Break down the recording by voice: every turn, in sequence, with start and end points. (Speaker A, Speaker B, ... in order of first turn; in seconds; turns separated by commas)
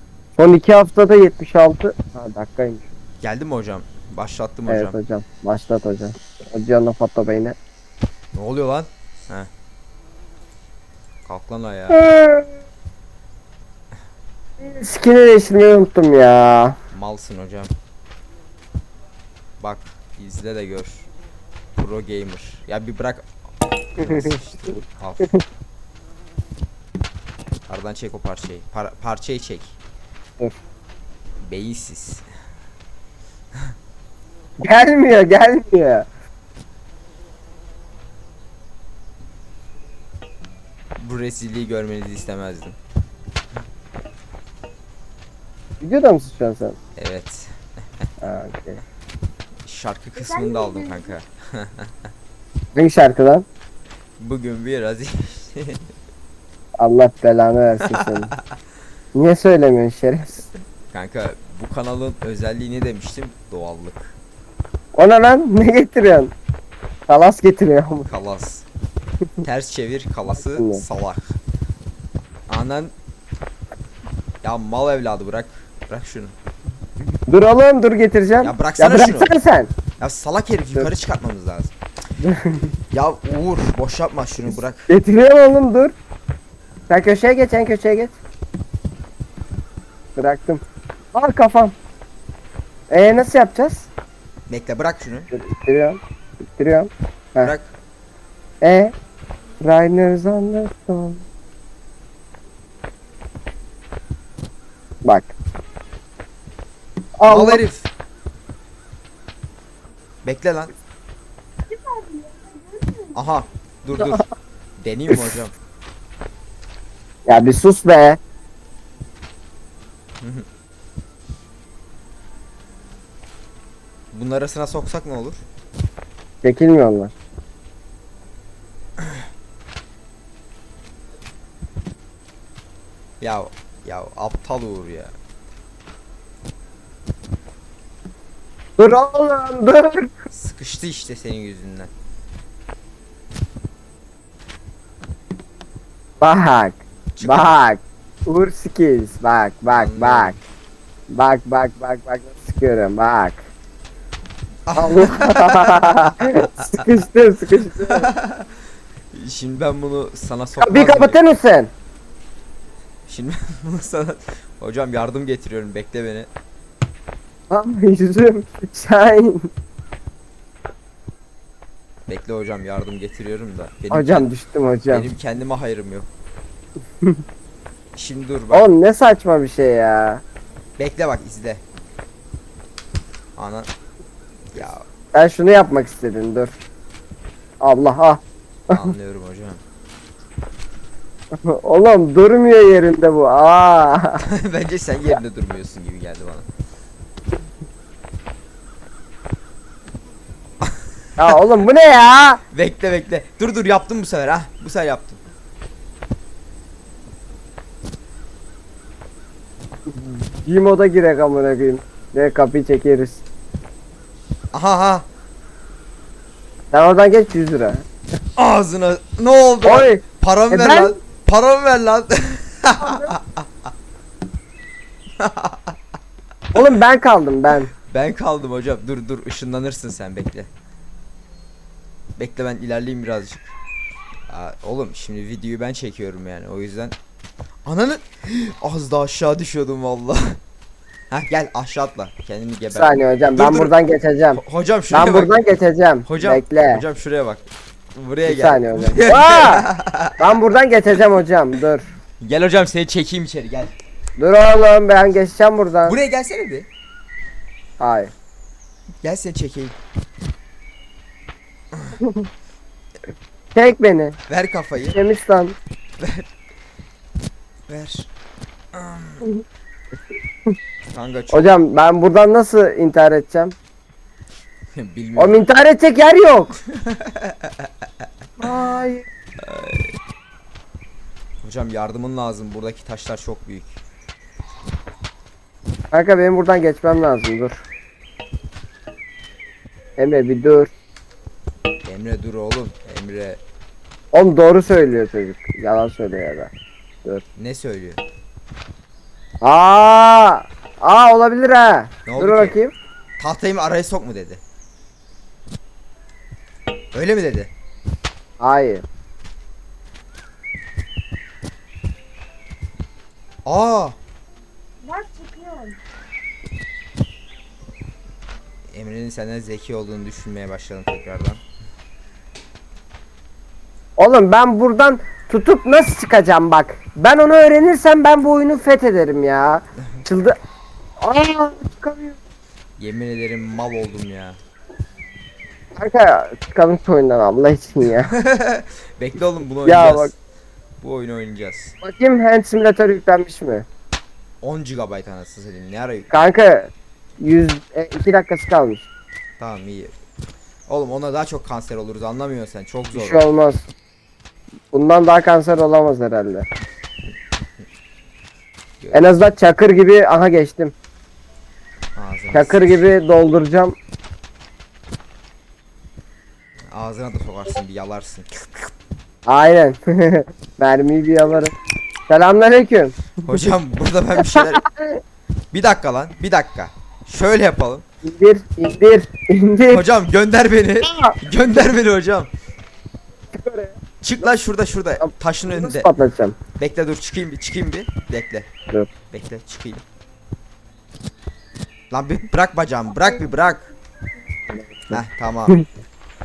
Speaker A: 0.4-2.9, Speaker B: 3.2-5.0, Speaker A: 4.7-7.6, Speaker B: 8.3-9.5, Speaker B: 11.2-12.0, Speaker A: 11.9-12.6, Speaker A: 14.6-16.8, Speaker B: 16.9-17.7, Speaker B: 19.6-21.1, Speaker B: 21.8-23.3, Speaker B: 24.0-25.3, Speaker A: 24.0-24.4, Speaker B: 27.7-29.8, Speaker B: 31.4-32.2, Speaker A: 34.6-36.1, Speaker B: 41.0-42.8, Speaker A: 45.8-46.8, Speaker B: 47.0-47.5, Speaker A: 48.2-48.8, Speaker B: 49.7-51.9, Speaker C: 50.2-51.1, Speaker A: 52.8-53.5, Speaker B: 54.2-55.9, Speaker A: 56.8-58.3, Speaker B: 58.1-58.5, Speaker A: 59.1-60.5, Speaker B: 60.9-64.2, Speaker A: 65.0-66.3, Speaker A: 67.1-68.1, Speaker B: 68.1-68.7, Speaker B: 69.4-71.4, Speaker A: 70.3-70.8, Speaker B: 72.5-72.9, Speaker B: 74.4-76.3, Speaker A: 77.3-79.7, Speaker B: 78.4-79.3, Speaker B: 80.0-81.7, Speaker A: 82.2-82.7, Speaker B: 82.9-84.9, Speaker A: 84.9-86.0, Speaker A: 86.9-88.2, Speaker A: 90.2-90.6, Speaker A: 91.1-91.8, Speaker A: 92.9-93.9, Speaker B: 94.5-95.3, Speaker A: 95.3-96.0, Speaker A: 96.6-97.5, Speaker B: 97.4-97.7, Speaker A: 98.6-98.9, Speaker A: 99.6-101.2, Speaker A: 105.0-105.3, Speaker A: 107.2-107.6, Speaker B: 107.3-107.9, Speaker B: 110.2-110.7, Speaker C: 111.7-113.4, Speaker B: 113.1-114.2, Speaker B: 114.8-115.5, Speaker A: 117.3-118.2, Speaker B: 120.2-120.5, Speaker B: 124.1-125.4, Speaker A: 126.4-127.1, Speaker B: 133.2-135.1, Speaker A: 138.8-140.1, Speaker B: 140.3-141.9, Speaker A: 146.2-150.4, Speaker B: 147.2-147.5, Speaker B: 149.7-150.4, Speaker A: 151.1-153.5, Speaker B: 154.7-156.8, Speaker A: 154.8-158.1, Speaker B: 157.8-158.5, Speaker B: 159.1-161.2, Speaker A: 160.6-161.7, Speaker B: 163.1-166.3, Speaker A: 167.5-169.5, Speaker B: 172.1-174.3, Speaker A: 173.9-175.1, Speaker B: 174.9-176.1, Speaker B: 177.9-178.7, Speaker A: 178.5-180.2, Speaker B: 180.8-181.6, Speaker B: 183.4-183.7, Speaker B: 184.5-184.9, Speaker A: 185.1-186.6, Speaker A: 187.6-188.9, Speaker B: 188.7-189.6, Speaker A: 191.4-194.2, Speaker B: 194.2-196.5, Speaker B: 200.6-201.4, Speaker A: 201.2-202.4, Speaker B: 202.5-205.2, Speaker A: 209.9-213.2, Speaker B: 214.5-215.1, Speaker A: 216.7-217.8, Speaker B: 218.4-223.5, Speaker A: 219.6-220.9, Speaker A: 222.8-223.1, Speaker B: 225.2-225.8, Speaker A: 226.5-227.7, Speaker B: 227.8-230.5, Speaker B: 232.2-233.5, Speaker B: 234.3-236.9, Speaker B: 237.7-240.4, Speaker B: 241.1-243.7, Speaker A: 242.7-246.8, Speaker B: 244.3-245.4, Speaker B: 246.1-247.4, Speaker B: 247.9-250.3, Speaker A: 248.3-249.7, Speaker A: 250.2-251.9, Speaker B: 252.2-253.7, Speaker A: 254.2-256.0, Speaker B: 255.8-256.7, Speaker A: 257.8-258.1, Speaker B: 259.0-259.8, Speaker A: 262.0-262.3, Speaker A: 263.6-264.2, Speaker B: 264.3-265.0, Speaker A: 264.9-265.6, Speaker B: 266.0-266.2, Speaker B: 267.7-268.1, Speaker B: 268.7-269.2, Speaker B: 270.9-271.5, Speaker A: 271.3-273.6, Speaker B: 274.7-275.4, Speaker A: 275.2-276.6, Speaker B: 276.7-277.7, Speaker A: 278.4-279.1, Speaker B: 279.4-279.9, Speaker B: 281.4-283.8, Speaker A: 285.9-287.6, Speaker A: 290.0-290.7, Speaker B: 291.9-293.4, Speaker A: 294.1-296.5, Speaker B: 297.4-298.0, Speaker A: 299.4-302.7, Speaker B: 302.1-302.6, Speaker B: 303.2-304.4, Speaker B: 306.9-307.5, Speaker A: 308.4-308.9, Speaker B: 313.5-314.0, Speaker C: 314.8-315.8, Speaker B: 318.7-321.4, Speaker A: 324.0-330.4, Speaker A: 331.0-332.2, Speaker B: 332.8-334.4, Speaker A: 335.8-338.1, Speaker B: 338.1-340.1, Speaker A: 339.6-340.1, Speaker B: 340.8-341.8, Speaker A: 341.8-343.7, Speaker B: 344.4-346.1, Speaker A: 346.1-348.9, Speaker B: 349.4-350.0, Speaker B: 350.7-353.2, Speaker A: 352.9-353.7, Speaker A: 354.7-356.5, Speaker B: 358.8-359.1, Speaker A: 358.9-360.8, Speaker B: 361.9-362.9, Speaker A: 362.3-363.8, Speaker B: 366.7-368.3, Speaker A: 369.3-371.5, Speaker A: 372.1-373.1, Speaker B: 373.2-374.6, Speaker A: 374.2-375.0, Speaker B: 375.5-377.8, Speaker A: 378.0-379.8, Speaker B: 379.7-382.3, Speaker A: 380.8-381.2, Speaker A: 383.3-383.8, Speaker B: 384.0-385.9, Speaker A: 385.0-386.4, Speaker B: 386.6-388.5, Speaker B: 389.1-389.8, Speaker B: 391.9-393.7, Speaker A: 394.6-395.6, Speaker B: 394.9-395.6